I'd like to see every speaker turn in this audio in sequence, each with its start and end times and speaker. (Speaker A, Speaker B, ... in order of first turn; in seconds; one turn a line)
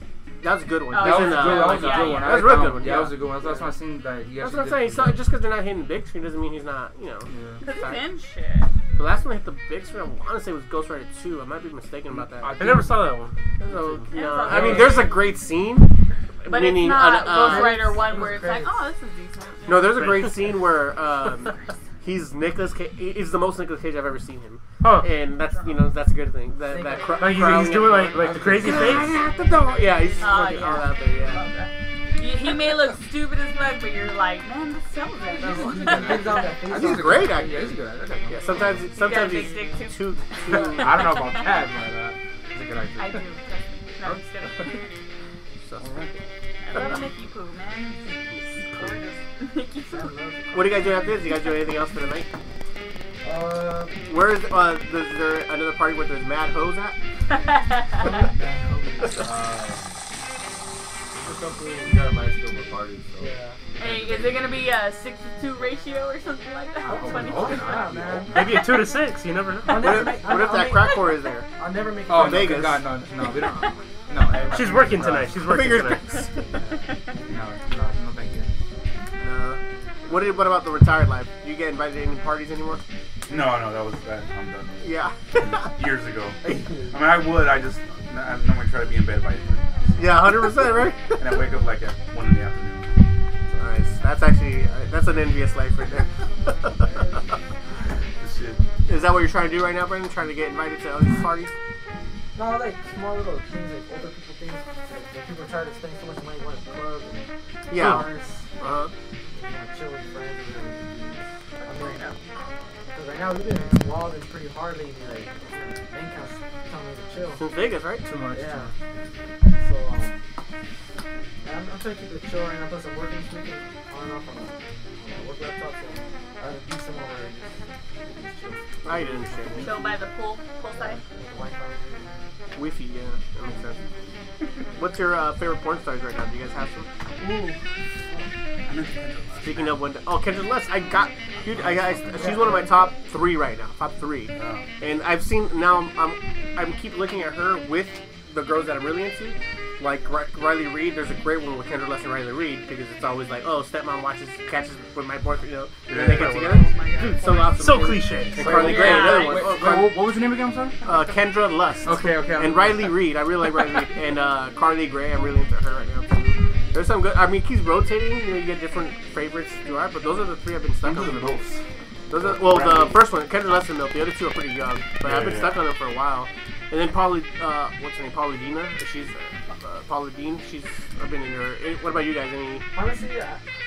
Speaker A: 0.4-3.3
Speaker B: 0.9-2.7
Speaker C: 0.9-5.3
Speaker A: 4.4-8.0
Speaker C: 7.3-7.6
Speaker B: 7.6-8.7
Speaker A: 8.9-12.6
Speaker C: 12.2-13.2
Speaker D: 12.6-13.3
Speaker A: 13.6-15.9
Speaker B: 14.1-15.3
Speaker C: 14.5-15.1
Speaker A: 16.4-18.1
Speaker B: 16.4-20.2
Speaker E: 17.3-18.8
Speaker A: 19.7-31.4
Speaker D: 20.0-20.3
Speaker D: 24.8-25.1
Speaker B: 25.5-25.9
Speaker E: 26.7-27.4
Speaker D: 27.2-29.2
Speaker C: 28.1-29.2
Speaker B: 29.8-36.5
Speaker E: 35.4-37.5
Speaker C: 35.4-38.9
Speaker A: 36.7-41.1
Speaker B: 39.0-41.5
Speaker C: 40.5-43.2
Speaker B: 43.0-44.9
Speaker B: 46.6-50.1
Speaker E: 49.9-51.2
Speaker A: 50.5-52.3
Speaker E: 53.2-53.9
Speaker A: 54.1-57.0
Speaker B: 57.3-58.2
Speaker E: 58.0-59.2
Speaker F: 58.2-60.0
Speaker F: 61.1-63.4
Speaker E: 63.2-63.6
Speaker B: 63.8-67.9
Speaker C: 63.9-64.2
Speaker E: 66.9-68.5
Speaker C: 66.9-67.7
Speaker G: 67.0-68.6
Speaker D: 68.3-70.1
Speaker E: 69.7-72.8
Speaker A: 69.7-71.5
Speaker B: 70.8-71.1
Speaker C: 72.1-75.5
Speaker A: 72.1-73.3
Speaker D: 74.5-76.1
Speaker A: 75.4-76.5
Speaker C: 77.3-78.5
Speaker A: 79.2-82.8
Speaker G: 83.3-90.5
Speaker A: 84.8-85.7
Speaker A: 90.0-91.4
Speaker G: 91.2-93.0
Speaker A: 93.5-97.0
Speaker G: 98.2-98.6
Speaker A: 98.9-101.5
Speaker E: 102.3-108.5
Speaker A: 107.7-108.1
Speaker D: 107.8-108.0
Speaker A: 108.6-108.9
Speaker E: 109.3-112.0
Speaker B: 111.6-112.2
Speaker E: 112.9-117.5
Speaker A: 117.3-118.1
Speaker C: 118.0-118.7
Speaker E: 118.3-118.7
Speaker E: 119.5-120.2
Speaker E: 121.4-129.9
Speaker A: 128.8-129.7
Speaker C: 129.3-129.7
Speaker B: 129.6-131.0
Speaker E: 130.7-132.1
Speaker A: 132.6-133.8
Speaker A: 134.7-137.3
Speaker G: 138.7-139.9
Speaker A: 139.4-160.1
Speaker G: 141.6-141.8
Speaker E: 142.2-142.9
Speaker G: 144.3-144.7
Speaker G: 155.9-156.6
Speaker B: 156.4-157.9
Speaker D: 157.5-158.8
Speaker C: 158.4-160.8
Speaker B: 158.5-159.6
Speaker A: 160.8-171.2
Speaker C: 161.8-162.9
Speaker G: 170.8-173.0
Speaker A: 172.1-182.7
Speaker G: 175.0-175.6
Speaker E: 182.7-183.4